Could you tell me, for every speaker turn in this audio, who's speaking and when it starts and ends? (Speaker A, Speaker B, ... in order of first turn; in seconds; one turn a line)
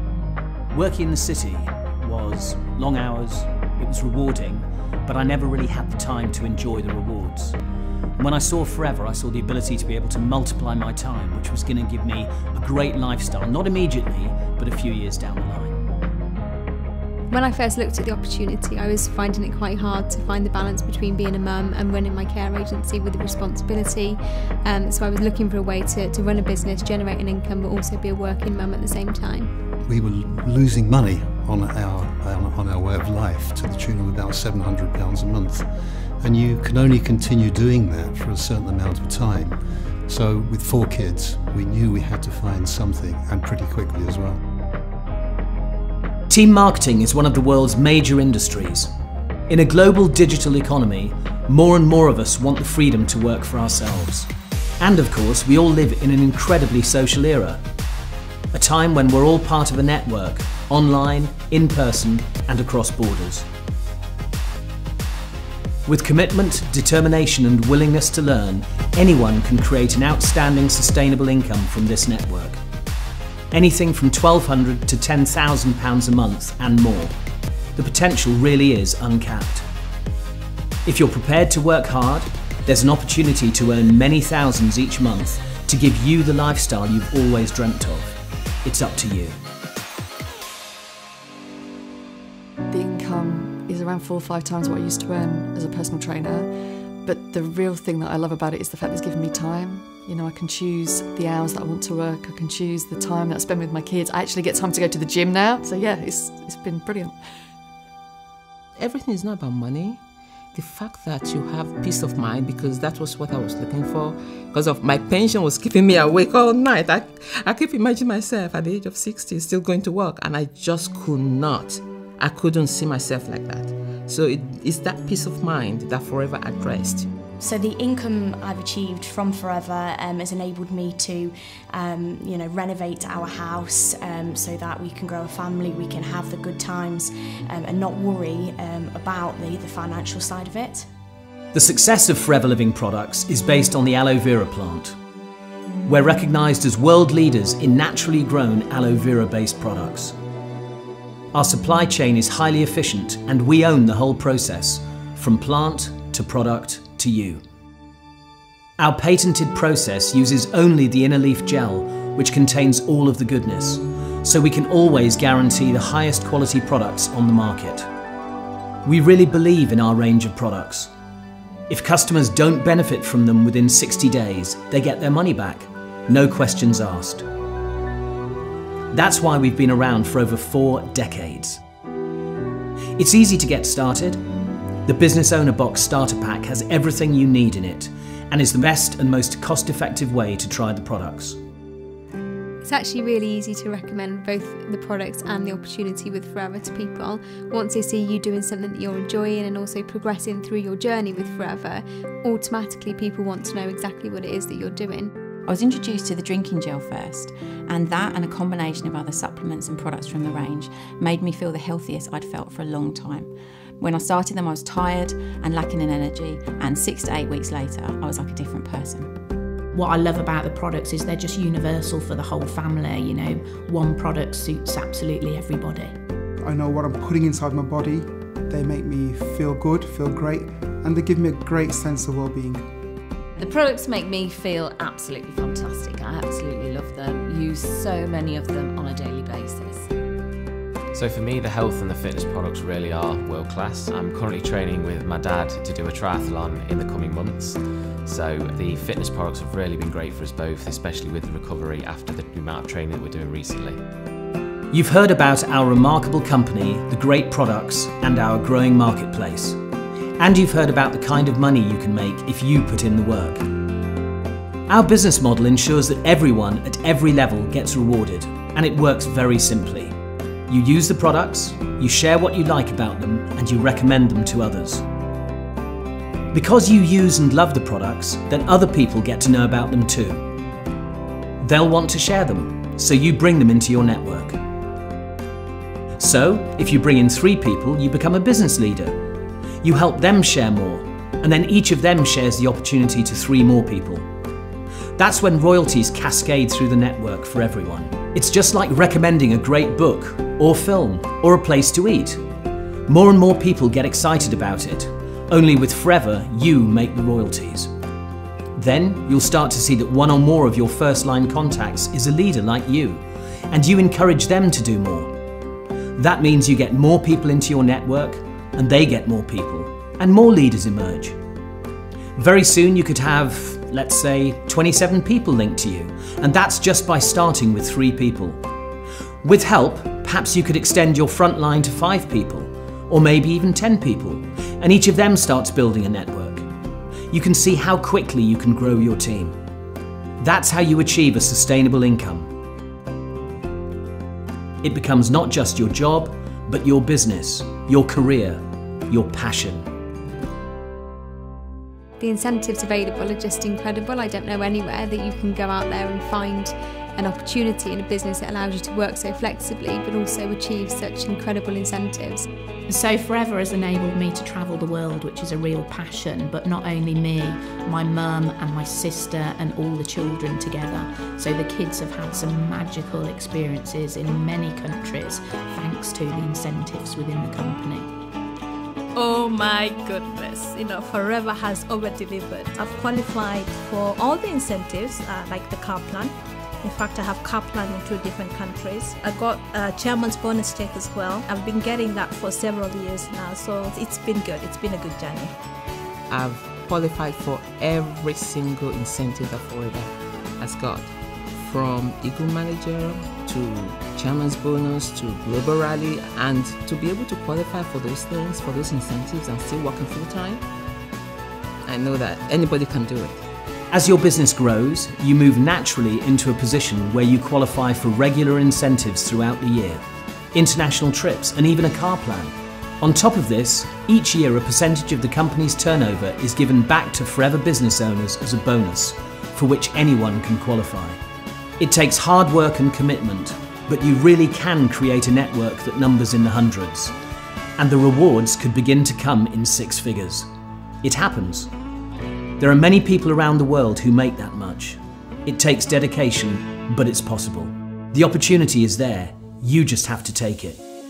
Speaker A: 0.7-7.6
Speaker A: 8.2-15.8
Speaker B: 17.3-29.5
Speaker C: 29.9-35.6
Speaker C: 36.2-44.4
Speaker A: 46.3-48.9
Speaker A: 49.5-54.3
Speaker A: 54.8-57.6
Speaker A: 58.5-63.5
Speaker A: 65.8-72.6
Speaker A: 73.5-77.1
Speaker A: 77.8-79.7
Speaker A: 80.8-89.4
Speaker D: 92.7-96.5
Speaker D: 97.0-107.2
Speaker E: 108.8-110.0
Speaker E: 110.5-127.1
Speaker F: 127.4-140.8
Speaker A: 141.5-144.9
Speaker A: 145.8-150.2
Speaker A: 151.3-157.4
Speaker A: 158.8-167.9
Speaker A: 168.8-170.9
Speaker A: 171.7-177.2
Speaker A: 178.9-181.6
Speaker A: 183.0-184.2
Speaker A: 184.9-191.4
Speaker B: 192.6-205.1
Speaker G: 205.5-213.3
Speaker G: 213.8-219.1
Speaker H: 219.7-226.0
Speaker I: 226.4-232.7
Speaker J: 233.3-239.9
Speaker K: 240.9-253.8
Speaker A: 254.7-259.6
Speaker A: 260.2-263.4
Speaker A: 264.7-269.9
Speaker A: 270.5-274.9
Speaker A: 276.3-280.3
Speaker A: 281.4-284.4
Speaker A: 286.0-289.0
Speaker A: 289.6-294.1
Speaker A: 295.0-302.2
Speaker A: 302.9-307.7
Speaker A: 308.6-315.1
Speaker A: 316.0-321.2
Speaker A: 322.2-328.4
Speaker A: 329.2-336.5
Speaker A: 337.1-339.4
Speaker A: 340.2-342.3
Speaker A: 344.6-349.7
Speaker B: 352.0-362.2
Speaker H: 362.7-377.9
Speaker L: 378.9-395.3
Speaker E: 396.1-410.4
Speaker E: 411.6-413.2
Speaker A: 413.7-419.8
Speaker A: 420.3-431.0
Speaker A: 431.6-436.9
Speaker A: 437.6-440.3
Speaker A: 440.8-441.5
Speaker A: 442.4-450.6